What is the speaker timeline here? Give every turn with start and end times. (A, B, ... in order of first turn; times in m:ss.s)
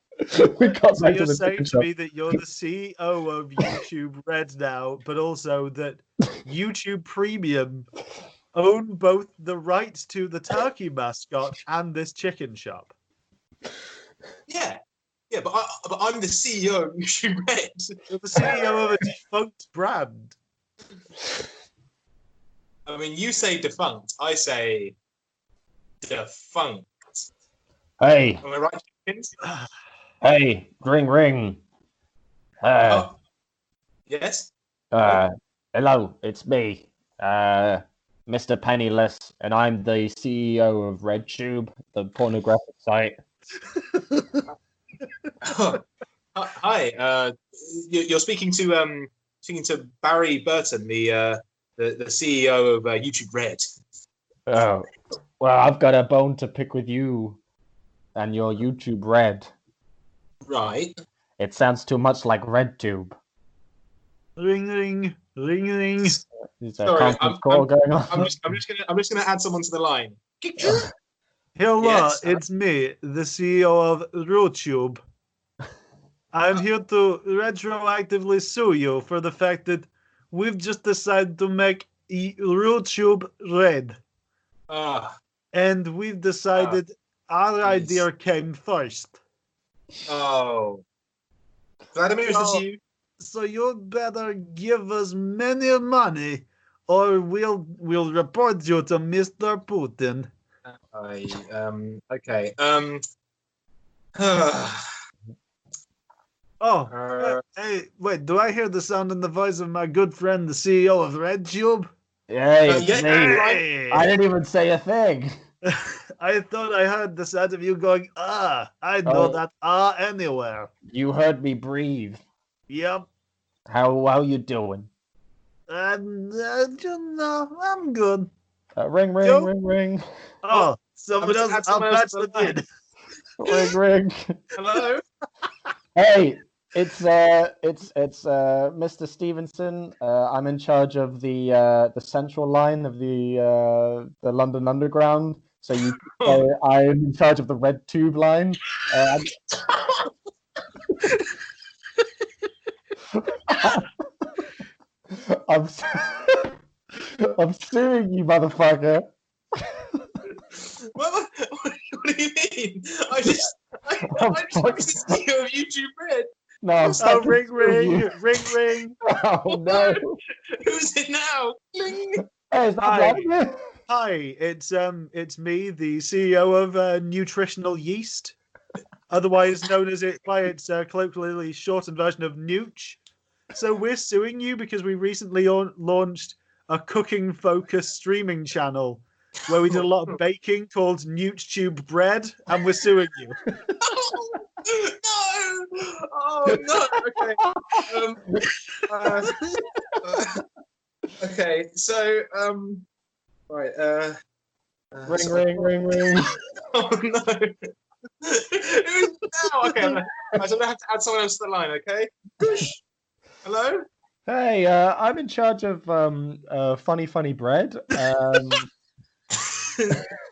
0:00.3-0:01.9 A
0:00.6-0:07.9 B
0:08.5-0:12.9 B
0:14.5-0:14.8 C
0:15.3-0:18.6 C
0:18.1-0:20.4 B
0:22.9-0:25.0 C
0:26.0-0:27.3 C
0:28.0-0:28.4 A
0:28.4-0:29.3 C
0:30.2-0:31.6 A
0:32.6-0:33.1 A
0:32.8-0:33.2 C
0:34.1-0:35.2 C
0:34.9-0:43.2 A
0:43.9-0:44.4 B
0:45.4-0:45.8 C
0:46.4-0:53.6 C
0:54.5-0:54.9 A
0:55.4-0:57.4 A
0:58.2-0:59.5 A
1:00.5-1:00.9 C
1:01.4-1:03.2 A
1:04.4-1:06.2 B
1:06.6-1:08.4 A
1:06.8-1:10.9 C
1:11.6-1:15.0 B
1:11.8-1:12.4 C
1:16.3-1:24.0 B
1:24.7-1:25.1 C
1:25.5-1:29.2 B
1:27.6-1:28.0 C
1:30.1-1:30.8 C
1:31.9-1:32.8 C
1:32.3-1:32.6 B
1:33.2-1:40.3 B
1:40.9-1:43.0 C
1:44.2-1:44.8 C
1:46.6-1:51.9 B
1:46.9-1:47.4 C
1:52.3-1:55.4 A
1:52.6-1:53.6 C
1:53.1-1:54.1 B
1:55.7-2:00.7 B
1:59.1-1:59.4 A
2:00.9-2:02.2 A
2:02.7-2:03.1 B
2:03.7-2:04.9 A
2:05.7-2:08.3 B
2:08.8-2:10.0 A
2:09.2-2:09.5 B
2:10.4-2:12.7 B
2:11.2-2:12.6 C
2:13.4-2:14.4 A
2:14.6-2:15.0 C
2:16.0-2:29.4 A
2:25.8-2:26.5 C
2:29.5-2:29.8 C
2:33.1-2:33.9 A
2:35.1-2:39.0 A
2:41.0-2:47.3 C
2:44.1-2:45.0 A
2:46.6-2:48.1 A
2:47.0-2:49.0 B
2:49.0-2:50.1 A
2:49.5-2:52.2 C
2:52.5-2:53.6 A
2:52.8-2:53.3 B
2:53.9-2:58.4 B
2:59.1-3:03.0 B
3:03.5-3:13.4 B
3:09.7-3:10.1 C
3:13.8-3:19.4 C
3:17.4-3:17.8 A
3:20.0-3:20.4 C
3:21.2-3:22.9 C
3:23.5-3:24.2 C
3:24.9-3:25.8 C
3:25.1-3:26.3 A
3:26.7-3:27.7 C
3:28.2-3:32.8 C
3:33.4-3:33.9 C
3:34.3-3:38.7 A
3:39.4-3:40.0 C